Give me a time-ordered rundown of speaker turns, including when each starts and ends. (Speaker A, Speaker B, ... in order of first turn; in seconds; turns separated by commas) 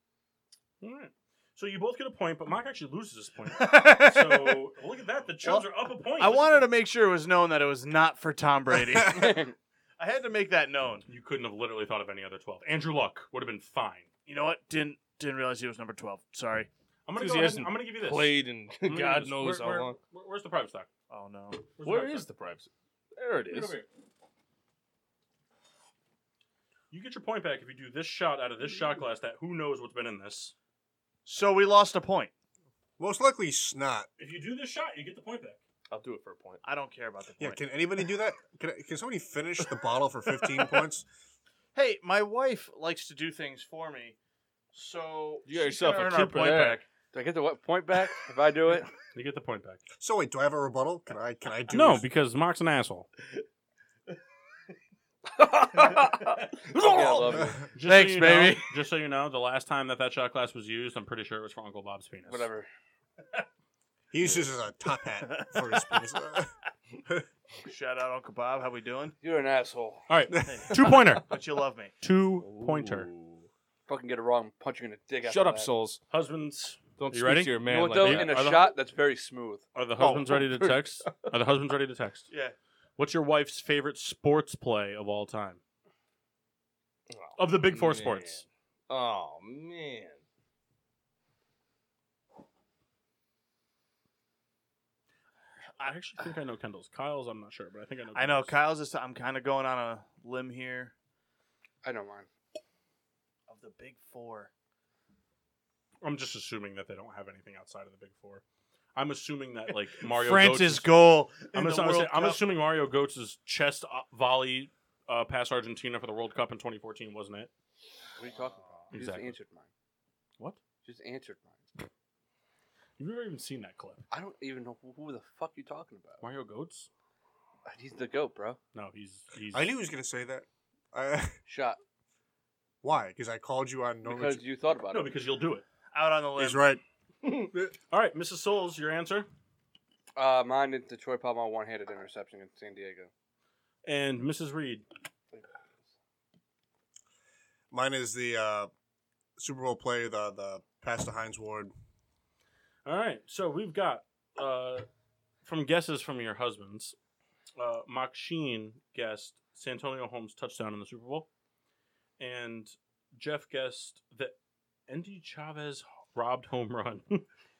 Speaker A: 0.8-6.7, Speaker B: 3.5-4.6, Speaker B: 5.4-11.1, Speaker A: 11.1-14.1, Speaker B: 14.3-16.7, Speaker A: 17.1-20.9, Speaker C: 17.2-20.0, Speaker B: 21.1-21.7, Speaker A: 21.8-22.3, Speaker C: 21.8-23.8, Speaker A: 23.5-23.9, Speaker A: 26.9-30.5, Speaker B: 31.2-32.3, Speaker D: 33.0-34.1, Speaker A: 34.2-35.6, Speaker C: 35.9-36.6, Speaker B: 36.6-37.6, Speaker D: 37.4-41.1, Speaker B: 41.8-44.2, Speaker B: 44.7-46.9, Speaker C: 45.5-46.8, Speaker E: 47.1-48.9, Speaker A: 49.1-49.8, Speaker D: 50.0-52.1, Speaker A: 51.7-53.1, Speaker E: 55.4-58.6, Speaker A: 57.7-62.5, Speaker E: 62.3-62.7, Speaker D: 64.1-66.5, Speaker B: 65.3-66.0, Speaker B: 67.6-69.2, Speaker E: 69.2-70.0, Speaker A: 70.1-71.4, Speaker B: 70.5-72.0, Speaker A: 72.0-73.1, Speaker C: 72.4-73.5, Speaker E: 73.9-75.7, Speaker C: 75.2-76.0, Speaker A: 76.1-78.8, Speaker C: 77.0-78.5, Speaker E: 77.7-79.6, Speaker A: 79.8-82.3, Speaker C: 80.0-81.3, Speaker B: 82.3-82.6, Speaker A: 83.0-85.6, Speaker C: 87.1-90.2, Speaker A: 87.4-88.4, Speaker A: 95.8-98.5, Speaker B: 98.2-100.9, Speaker E: 101.8-102.3, Speaker B: 103.5-104.5, Speaker A: 106.0-108.4, Speaker A: 109.0-117.5, Speaker B: 110.0-112.4, Speaker E: 118.2-119.7, Speaker A: 118.9-119.4, Speaker E: 120.8-121.6, Speaker A: 123.0-124.0, Speaker E: 124.1-126.2, Speaker A: 126.2-126.9, Speaker E: 127.7-128.6, Speaker A: 128.8-129.7, Speaker D: 129.5-131.4, Speaker E: 131.5-131.8, Speaker D: 132.8-134.4, Speaker E: 134.1-135.1, Speaker A: 134.9-135.6, Speaker B: 135.9-136.7, Speaker D: 136.4-136.8, Speaker A: 137.9-139.3, Speaker E: 140.2-143.1, Speaker A: 143.8-144.8, Speaker D: 147.7-148.7, Speaker D: 149.4-151.7, Speaker A: 152.8-154.9, Speaker A: 155.4-156.9, Speaker A: 157.6-161.3, Speaker A: 162.2-164.3, Speaker A: 164.9-167.2